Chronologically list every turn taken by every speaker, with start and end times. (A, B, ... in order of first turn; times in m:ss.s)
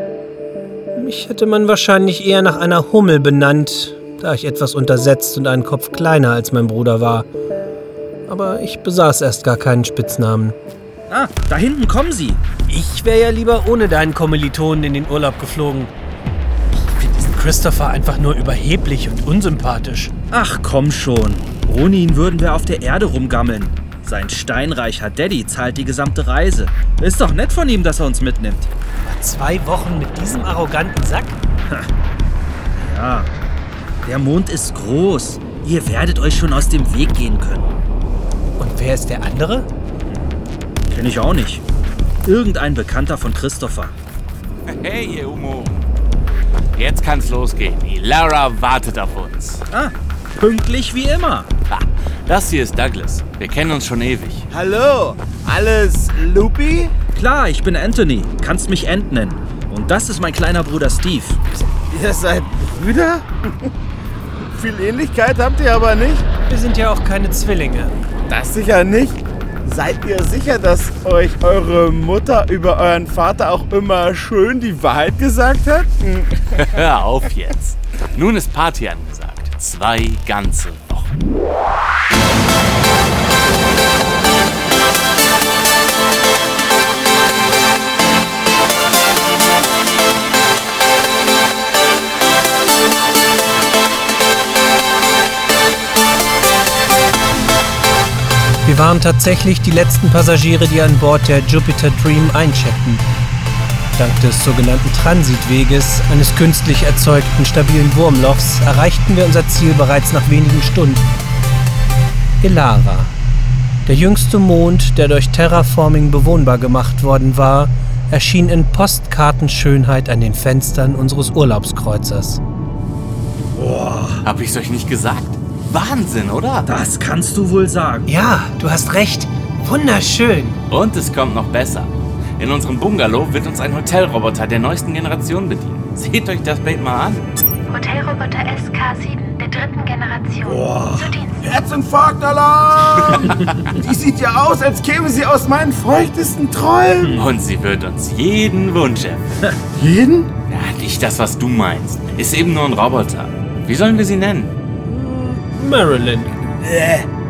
0:00.9-0:07.3 A
0:08.3-0:10.6 A
0:11.1-0:12.4 B
0:12.7-0:15.9 A
0:17.0-0:20.1 A
0:20.3-0:28.7 B
0:29.0-0:31.4 A
0:32.8-0:33.3 B
0:34.0-0:37.7 B
0:38.6-0:39.7 A
0:40.1-0:40.3 B
0:40.9-0:41.6 B
0:42.2-0:43.9 B
0:44.7-0:45.9 C
0:46.8-0:49.6 C
0:49.7-0:51.5 B
0:51.7-0:54.4 C
0:54.5-0:56.9 D
0:57.1-1:01.4 B
1:01.9-1:03.7 D
1:04.5-1:06.2 D
1:06.5-1:07.9 A
1:08.3-1:16.4 D
1:16.5-1:21.1 C
1:38.6-1:43.0 A
1:44.0-1:51.0 A
1:52.4-1:53.1 A
1:53.8-2:02.4 A
2:03.5-2:04.2 B
2:04.2-2:06.7 C
2:06.7-2:08.1 B
2:08.1-2:10.6 A
2:10.7-2:17.2 C
2:17.7-2:21.4 E
2:20.4-2:27.2 D
2:23.1-2:23.3 C
2:27.0-2:27.3 B
2:27.1-2:29.3 C
2:29.8-2:30.3 D
2:30.5-2:34.5 C
2:34.8-2:36.3 A
2:36.6-2:37.1 D